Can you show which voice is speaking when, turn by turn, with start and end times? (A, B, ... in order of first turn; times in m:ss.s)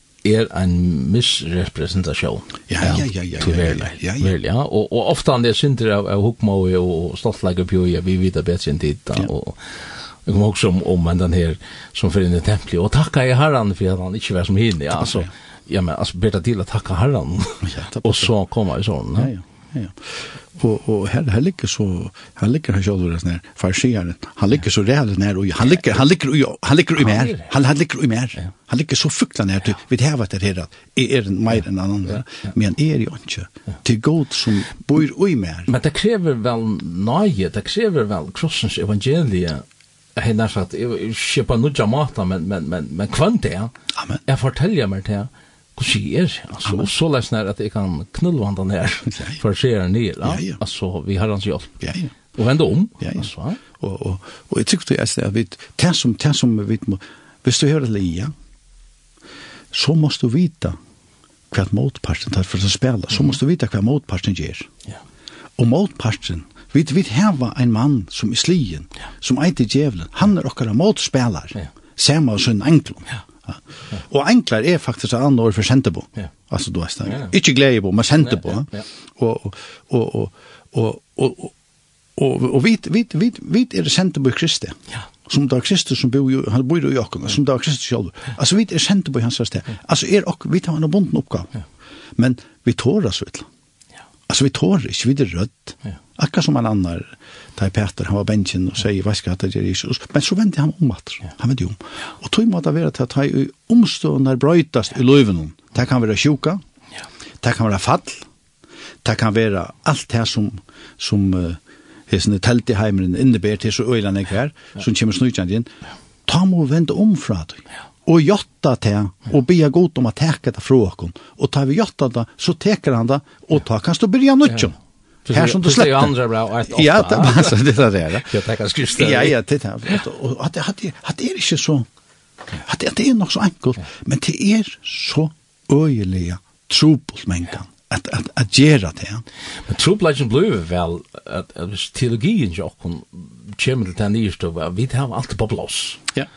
0:00.2-0:19.3 A
0:02.7-0:04.3 B
0:14.9-0:15.3 B
0:17.6-0:18.3 B
0:19.1-0:35.7 B
0:27.0-0:27.5 A
0:35.7-0:39.6 A
0:40.2-0:43.7 A
0:44.0-0:44.2 B
0:44.2-0:51.8 A
0:49.1-0:49.4 B
0:50.2-0:50.6 B
0:51.8-0:52.1 B
0:52.3-0:53.6 A
0:53.0-0:58.3 B
0:59.7-1:00.8 B
1:01.5-1:04.7 B
1:05.6-1:21.5 B
1:18.3-1:18.8 A
1:22.2-1:31.5 B
1:32.2-1:33.5 B
1:34.3-1:46.6 B
1:47.4-1:48.2 B
1:49.0-1:55.7 B
1:56.3-2:04.8 B
2:05.2-2:07.6 A
2:05.3-2:06.1 B
2:06.6-2:08.3 B
2:08.2-2:09.4 A
2:08.9-2:11.9 B
2:12.6-2:19.2 B
2:19.7-2:26.0 A